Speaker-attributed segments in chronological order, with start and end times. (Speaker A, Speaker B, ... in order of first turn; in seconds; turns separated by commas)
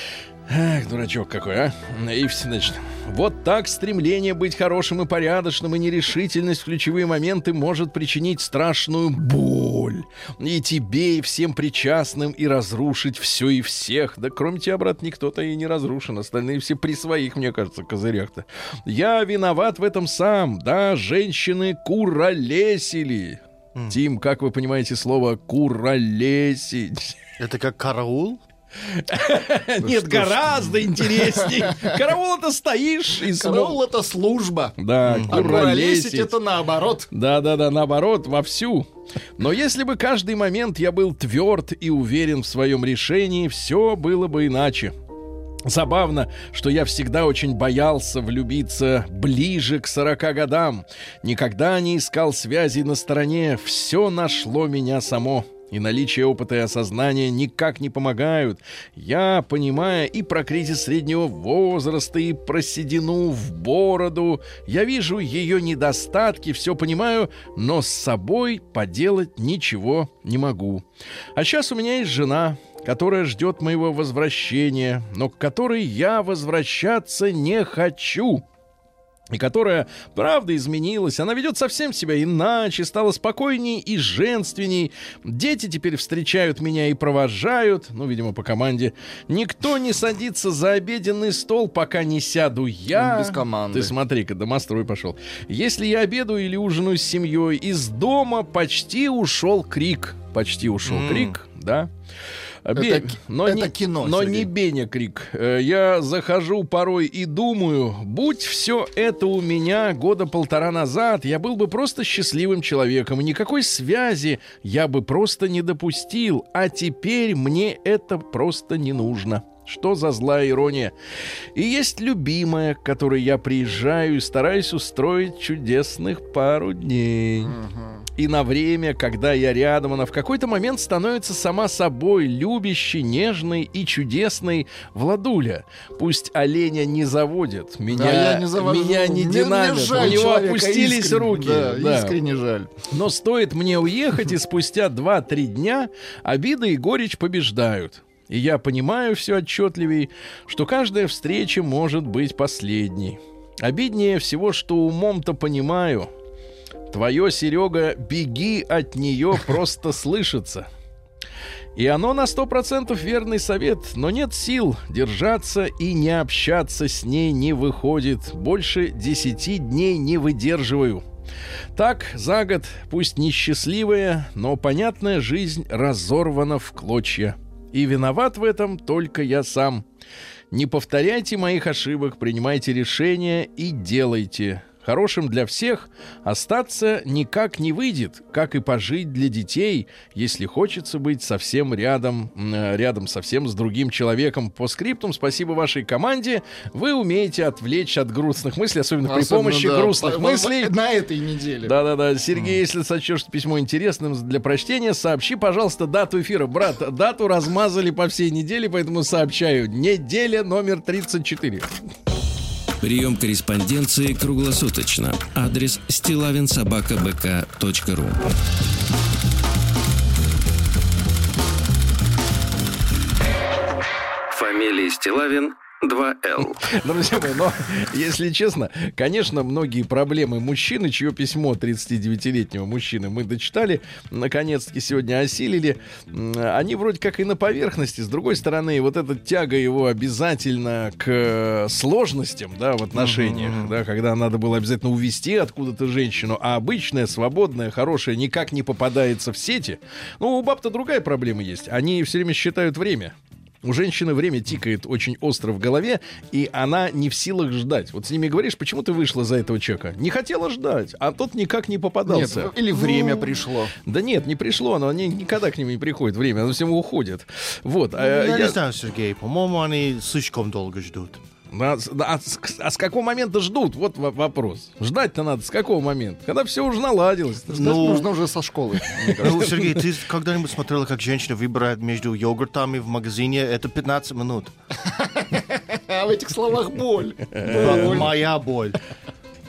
Speaker A: 0.5-27.2, Speaker B: 27.4-28.4, Speaker A: 28.9-33.8, Speaker C: 29.8-31.9, Speaker C: 33.2-34.8, Speaker A: 34.8-36.4, Speaker B: 35.1-35.6, Speaker C: 35.3-37.1, Speaker A: 37.1-44.9, Speaker A: 45.7-70.8, Speaker A: 71.4-78.4, Speaker A: 79.3-101.9, Speaker C: 92.9-93.9, Speaker B: 100.8-101.4, Speaker A: 102.7-120.9, Speaker C: 102.8-104.5, Speaker A: 121.5-127.6, Speaker C: 127.5-128.1, Speaker A: 128.2-142.2, Speaker C: 137.9-142.7, Speaker A: 142.9-156.1, Speaker A: 156.9-160.7, Speaker A: 161.8-171.0, Speaker A: 171.8-179.8, Speaker A: 180.5-200.7, Speaker C: 199.0-201.7, Speaker A: 201.6-211.7, Speaker D: 212.8-218.3, Speaker D: 224.3-226.6, Speaker A: 226.6-263.3, Speaker B: 242.9-243.8, Speaker C: 262.1-263.7, Speaker A: 263.9-268.6, Speaker B: 268.0-271.2, Speaker A: 271.5-277.8, Speaker B: 277.5-278.1, Speaker C: 277.5-279.6, Speaker A: 279.0-279.7, Speaker B: 279.2-284.5, Speaker C: 284.9-288.2, Speaker A: 287.4-288.1, Speaker B: 287.5-288.8